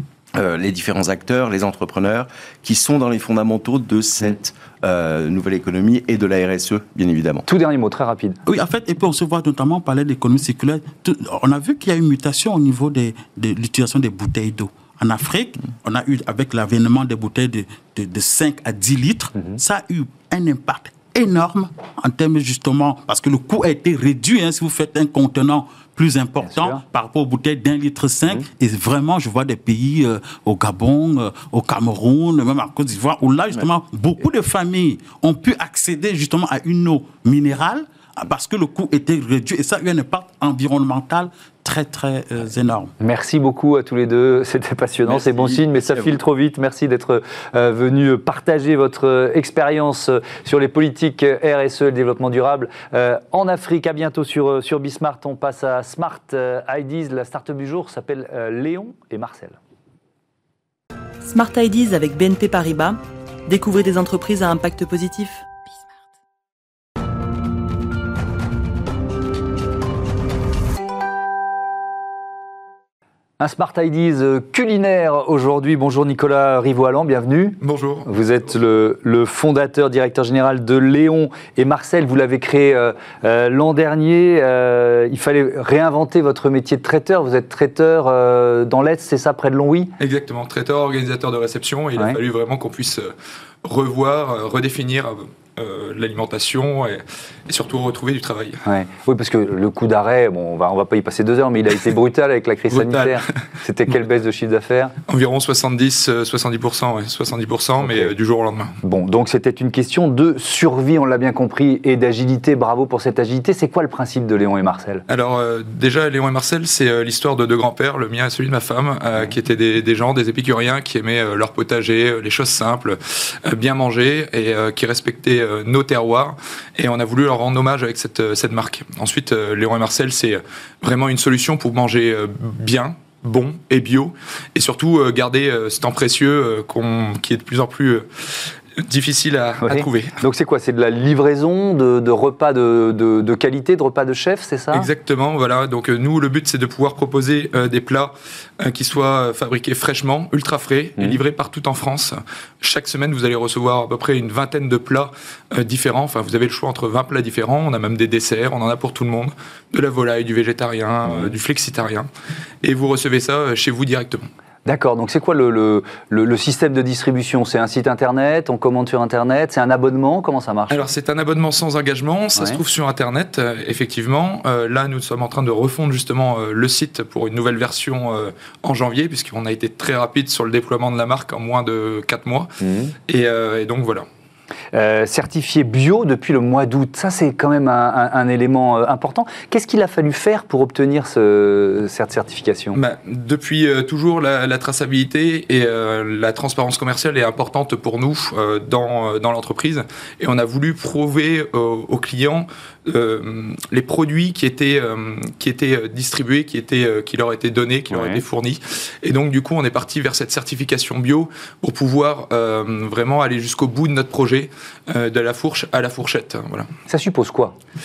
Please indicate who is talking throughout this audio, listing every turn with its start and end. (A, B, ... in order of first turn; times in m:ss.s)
0:00.3-0:07.5 A
0:07.5-0:08.4 B
0:08.5-0:42.9 C
0:26.4-0:26.8 B
0:43.0-0:59.6 B
1:01.2-1:05.4 D
1:13.4-1:29.9 B
1:17.6-1:18.1 E
1:30.0-1:33.1 E
1:33.6-1:38.6 E
1:38.6-1:45.0 B
1:42.7-1:43.4 E
1:45.1-1:48.7 E
1:47.8-1:48.1 B
1:48.8-1:55.0 B
1:55.1-2:20.2 E
2:19.6-2:24.9 B
2:24.7-2:42.1 E
2:41.1-2:41.4 B
2:42.6-2:44.2 E
2:44.7-2:50.9 B
2:50.7-3:02.5 E
3:02.6-3:02.9 B
3:03.1-3:04.1 E
3:04.7-3:12.8 B
3:12.7-3:36.7 E
3:27.9-3:28.2 B
3:36.9-3:37.6 B